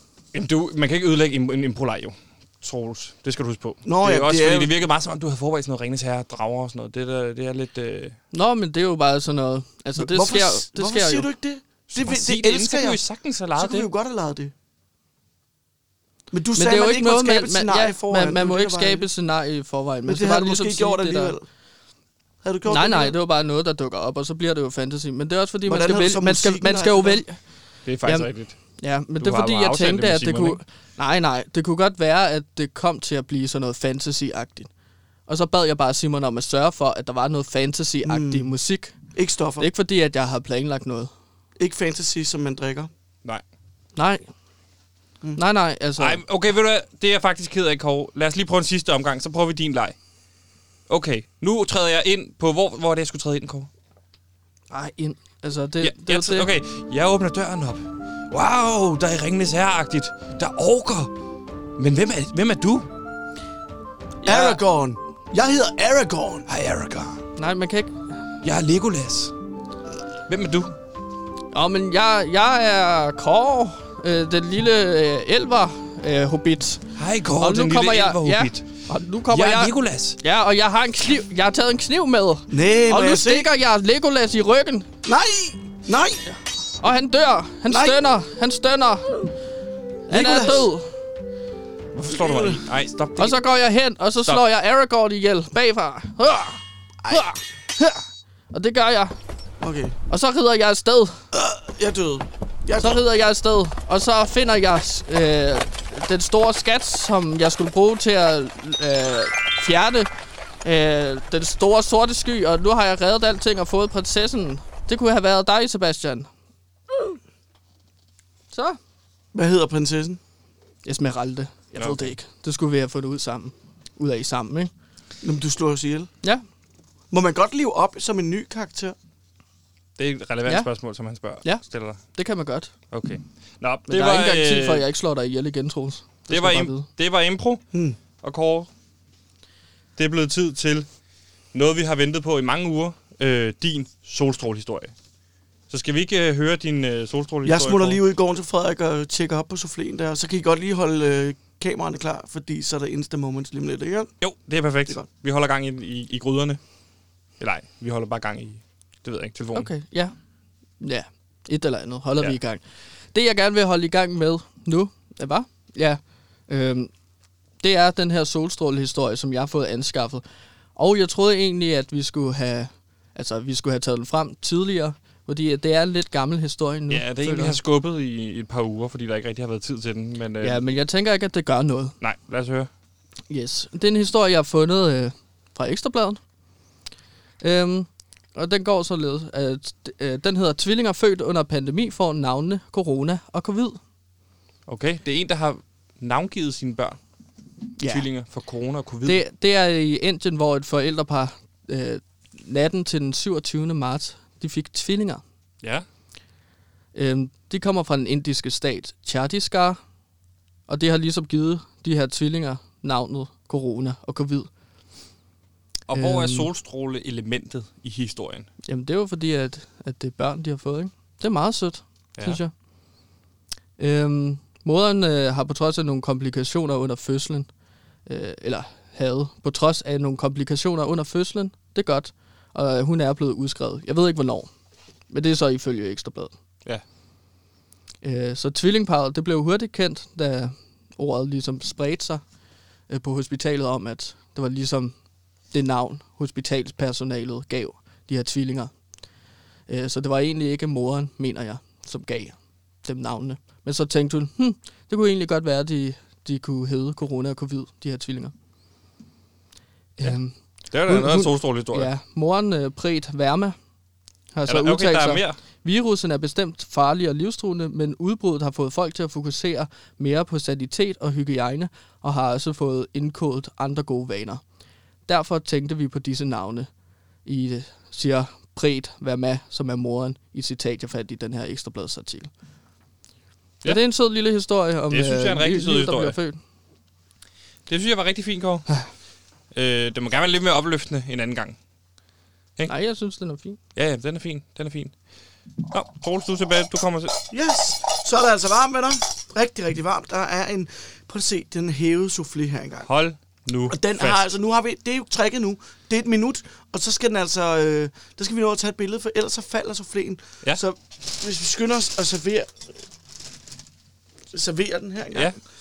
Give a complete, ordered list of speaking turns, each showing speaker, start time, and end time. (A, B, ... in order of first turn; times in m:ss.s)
0:00.3-0:08.1 A
0:03.8-0:04.7 B
0:08.3-0:11.3 C
0:10.0-0:13.0 B
0:11.9-0:13.9 A
0:13.6-0:14.5 B
0:16.3-0:19.1 B
0:16.5-0:21.4 C
0:20.0-0:21.4 B
0:22.4-0:23.1 B
0:22.7-0:27.4 C
0:25.6-0:27.2 B
0:27.8-0:28.6 A
0:28.0-0:34.7 C
0:29.2-0:30.6 A
0:35.3-0:39.0 C
0:38.0-0:38.5 B
0:39.1-0:39.7 B
0:39.6-0:41.1 C
0:41.6-0:42.9 B
0:44.0-0:44.3 C
0:45.4-0:46.2 C
0:46.0-0:49.9 A
0:50.9-0:53.7 A
0:54.7-0:56.5 C
0:55.8-1:01.1 A
1:01.8-1:02.9 A
1:04.2-1:04.6 A
1:04.2-1:06.4 B
1:06.5-1:07.2 A
1:07.4-1:08.0 C
1:08.4-1:09.3 A
1:10.3-1:10.7 A
1:11.5-1:16.8 C
1:17.0-1:18.7 A
1:17.4-1:24.9 C
1:19.3-1:20.2 A
1:22.5-1:23.5 B
1:25.0-1:26.3 B
1:26.8-1:29.1 C
1:27.7-1:28.0 B
1:30.1-1:30.7 B
1:30.1-1:30.9 C
1:31.9-1:33.4 A
1:32.1-1:32.6 B
1:33.2-1:39.1 C
1:37.0-1:37.3 B
1:39.6-1:40.0 B
1:40.1-1:41.2 C
1:41.3-1:43.0 B
1:42.8-1:50.1 C
1:50.6-1:56.3 C
1:58.5-1:58.8 C
1:59.3-2:00.2 B
2:00.8-2:04.7 C
2:01.8-2:02.1 A
2:05.2-2:06.1 B
2:07.1-2:09.0 B
2:10.0-2:12.0 A
2:12.1-2:12.7 C
2:12.9-2:14.8 A
2:13.9-2:16.9 C
2:16.3-2:17.6 A
2:17.7-2:18.0 B
2:18.2-2:18.7 A
2:20.0-2:20.9 A
2:21.5-2:24.9 A
2:25.7-2:28.0 A
2:27.4-2:34.1 B
2:34.2-2:36.6 A
2:37.4-2:39.7 A
2:39.5-2:40.1 C
2:40.8-2:42.6 C
2:43.1-2:46.9 C
2:47.6-2:50.2 C
2:50.8-2:57.6 C
2:56.9-3:00.6 A
3:00.4-3:01.9 C
3:02.0-3:02.7 A
3:03.3-3:06.2 C
3:07.4-3:13.8 C
3:14.7-3:17.0 A
3:17.8-3:18.0 C
3:17.8-3:19.2 A
3:19.0-3:25.2 C
3:26.9-3:29.8 C
3:30.7-3:34.5 C
3:35.9-3:38.5 A
3:35.9-3:36.5 C
3:38.6-3:42.5 C
3:43.8-3:47.5 C
3:48.0-3:54.5 C
3:55.1-3:56.3 C
3:58.0-4:02.2 C
4:02.9-4:04.9 C
4:05.5-4:08.7 C
4:09.7-4:18.3 C
4:20.0-4:20.4 C
4:20.7-4:21.9 A
4:20.9-4:23.6 C
4:24.3-4:34.4 C
4:24.5-4:25.4 A
4:35.1-4:36.7 C
4:37.2-4:42.3 C
4:43.6-4:46.4 C
4:44.9-4:46.2 A
4:47.7-4:48.7 A
4:49.5-4:51.6 A
4:52.7-4:53.6 C
4:53.8-4:54.9 A
4:55.7-4:57.2 A
4:57.3-5:02.9 B
5:02.9-5:04.2 A
5:03.7-5:12.6 B
5:14.3-5:15.4 B